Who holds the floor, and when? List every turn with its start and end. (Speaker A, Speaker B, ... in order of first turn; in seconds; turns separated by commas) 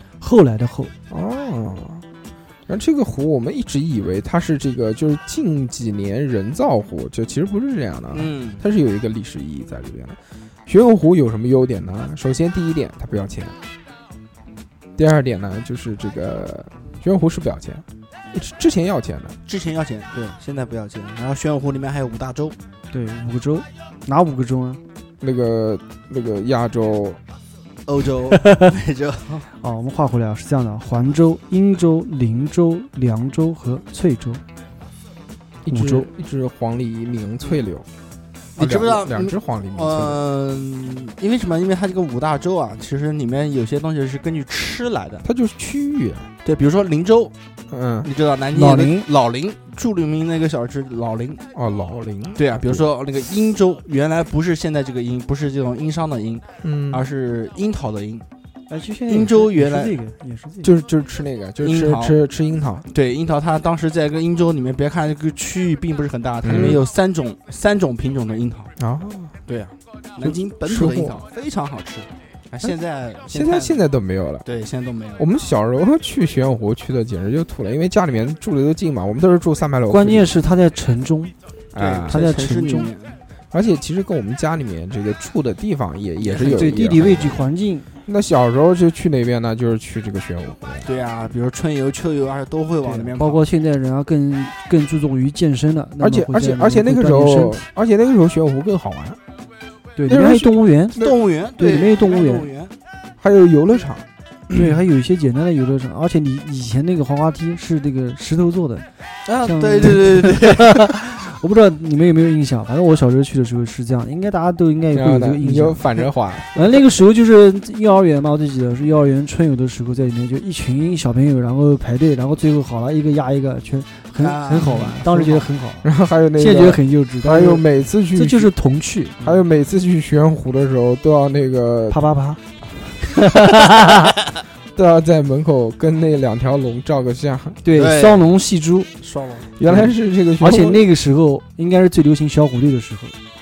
Speaker A: 0.2-0.9, Speaker B: 1.1-2.0, Speaker B: 2.7-13.6, Speaker C: 8.1-8.6, Speaker B: 15.0-19.4, Speaker C: 19.5-22.6, Speaker A: 22.9-24.8, Speaker B: 25.2-27.2, Speaker C: 27.9-29.5, Speaker A: 28.4-28.7, Speaker A: 29.6-34.4, Speaker B: 35.6-37.9, Speaker A: 35.7-36.1, Speaker C: 38.6-45.2, Speaker B: 38.6-40.2, Speaker B: 45.2-46.3, Speaker C: 46.5-47.3, Speaker B: 47.7-48.1, Speaker C: 48.0-51.4, Speaker A: 48.5-49.1, Speaker B: 51.5-52.9, Speaker C: 52.4-58.2, Speaker B: 56.6-57.0, Speaker A: 58.7-60.7, Speaker C: 59.1-60.0, Speaker B: 60.6-62.9, Speaker C: 61.6-62.2, Speaker C: 62.9-68.7, Speaker B: 66.4-66.8, Speaker B: 68.8-69.4, Speaker C: 69.5-73.8, Speaker B: 70.2-71.2, Speaker B: 73.3-74.5, Speaker C: 74.5-75.2, Speaker B: 75.2-80.3, Speaker A: 79.9-81.3, Speaker B: 81.7-82.2, Speaker C: 81.8-83.2, Speaker A: 82.1-82.9, Speaker B: 83.5-87.4, Speaker C: 86.2-86.8, Speaker A: 86.4-87.9, Speaker B: 88.1-90.9, Speaker C: 90.8-93.5, Speaker A: 92.8-97.7, Speaker B: 96.0-99.2, Speaker A: 100.0-101.0, Speaker B: 100.1-101.2, Speaker C: 101.0-102.7, Speaker A: 101.6-102.5, Speaker B: 103.2-104.1, Speaker A: 104.5-108.9, Speaker C: 109.3-110.7, Speaker A: 109.4-115.8, Speaker B: 114.9-116.7, Speaker A: 116.5-129.4, Speaker C: 124.2-125.4, Speaker B: 125.8-128.5, Speaker B: 129.2-132.0, Speaker A: 131.9-132.4, Speaker A: 133.2-134.1, Speaker B: 134.8-137.6, Speaker A: 137.6-138.9, Speaker C: 137.8-138.2, Speaker C: 139.0-139.5, Speaker B: 139.6-140.8, Speaker A: 139.7-143.2